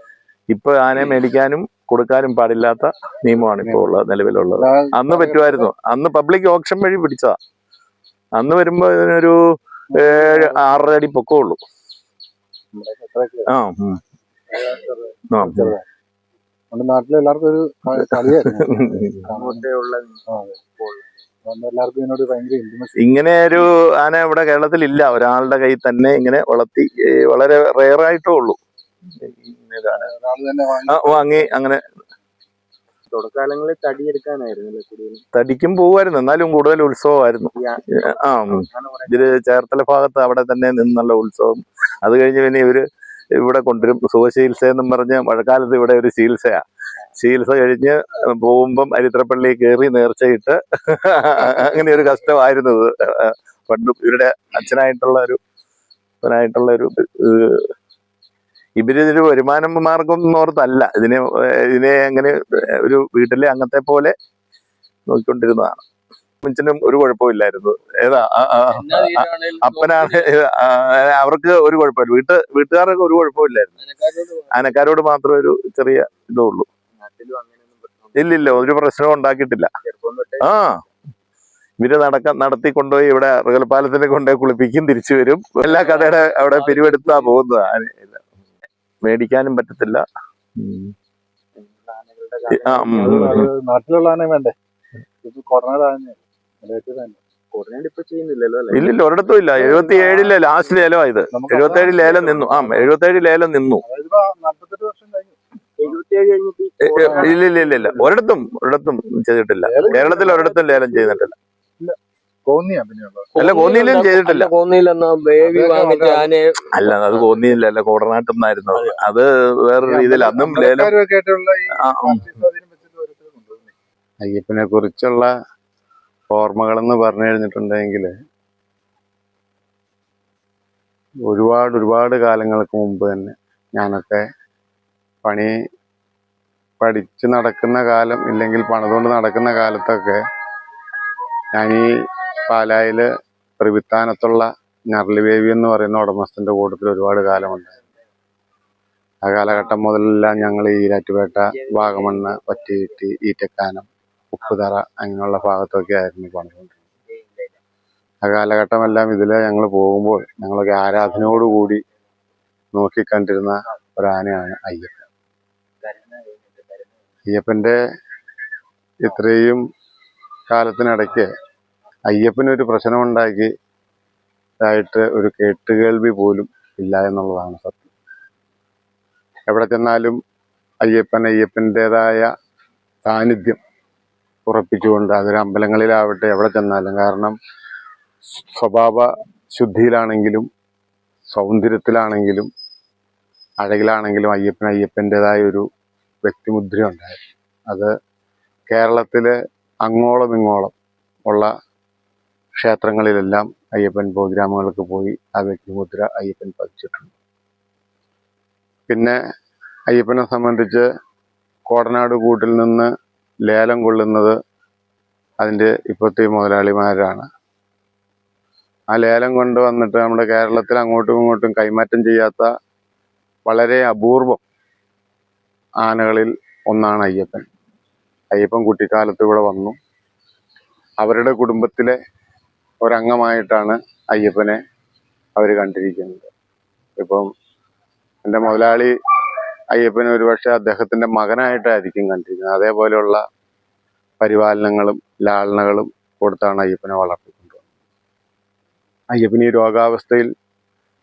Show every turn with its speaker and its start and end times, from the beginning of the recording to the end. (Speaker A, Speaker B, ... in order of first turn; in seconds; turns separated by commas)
Speaker A: 0.5-7.4, Speaker B: 3.6-4.0, Speaker B: 4.5-5.7, Speaker A: 8.4-9.4, Speaker A: 9.9-11.6, Speaker B: 9.9-10.5, Speaker B: 12.7-13.5, Speaker A: 13.5-14.0, Speaker B: 14.5-15.8, Speaker A: 15.3-15.7, Speaker B: 16.7-19.6, Speaker A: 18.5-19.3, Speaker C: 19.3-21.1, Speaker B: 20.3-20.6, Speaker B: 21.5-22.9, Speaker A: 23.0-28.6, Speaker A: 29.2-30.1, Speaker B: 29.9-31.5, Speaker A: 30.9-31.8, Speaker C: 33.1-35.2, Speaker A: 35.3-37.5, Speaker C: 37.6-39.5, Speaker A: 38.0-42.8, Speaker A: 43.4-55.4, Speaker A: 56.2-57.7, Speaker A: 58.8-64.1, Speaker A: 65.1-65.8, Speaker A: 66.4-73.8, Speaker D: 68.7-70.3, Speaker D: 73.8-74.5, Speaker A: 74.5-76.7, Speaker C: 77.0-78.7, Speaker A: 78.2-79.7, Speaker C: 79.8-80.5, Speaker A: 80.4-80.8, Speaker A: 81.8-88.2, Speaker C: 85.6-87.3, Speaker A: 89.0-90.0, Speaker A: 90.6-90.9, Speaker C: 91.6-93.2, Speaker A: 92.6-93.5, Speaker B: 92.9-94.5, Speaker B: 95.2-97.2, Speaker C: 97.5-98.9, Speaker A: 98.7-103.8, Speaker B: 99.6-100.4, Speaker B: 101.3-102.9, Speaker B: 103.8-105.9, Speaker C: 105.8-108.1, Speaker A: 106.8-111.4, Speaker B: 107.0-107.4, Speaker B: 109.6-110.8, Speaker C: 109.9-110.2, Speaker B: 111.8-113.3, Speaker D: 113.4-116.7, Speaker A: 113.4-114.5, Speaker B: 115.4-116.3, Speaker A: 116.7-120.9, Speaker B: 119.8-123.7, Speaker A: 121.8-122.4, Speaker E: 124.2-125.3, Speaker E: 126.3-128.1, Speaker E: 131.3-134.2, Speaker E: 135.2-135.5, Speaker E: 136.8-140.2, Speaker E: 141.5-141.9, Speaker E: 142.5-143.1, Speaker E: 143.6-147.8, Speaker E: 149.2-156.8, Speaker C: 151.5-153.0, Speaker C: 157.1-157.6, Speaker E: 158.2-161.8, Speaker E: 162.7-165.1, Speaker C: 165.8-166.9, Speaker E: 167.3-167.8, Speaker E: 169.0-169.6, Speaker E: 170.5-171.3, Speaker E: 172.1-173.5, Speaker E: 174.6-177.9, Speaker E: 179.5-180.2, Speaker E: 180.8-182.3, Speaker E: 183.1-183.6, Speaker E: 184.5-187.4, Speaker E: 188.3-190.5, Speaker E: 191.3-192.5, Speaker E: 193.6-195.7, Speaker E: 196.2-197.9, Speaker E: 198.7-200.7, Speaker E: 202.6-207.1, Speaker E: 208.9-209.2, Speaker E: 209.9-210.9, Speaker E: 211.7-212.9, Speaker E: 213.5-214.4, Speaker E: 215.4-217.3, Speaker E: 218.9-222.5, Speaker E: 223.5-224.4, Speaker E: 225.8-227.4, Speaker E: 228.3-229.8, Speaker E: 231.0-232.0, Speaker E: 232.8-234.6, Speaker E: 235.4-236.3, Speaker E: 237.0-237.3, Speaker E: 238.2-238.9, Speaker E: 239.7-243.2, Speaker E: 244.2-247.7, Speaker E: 249.1-250.3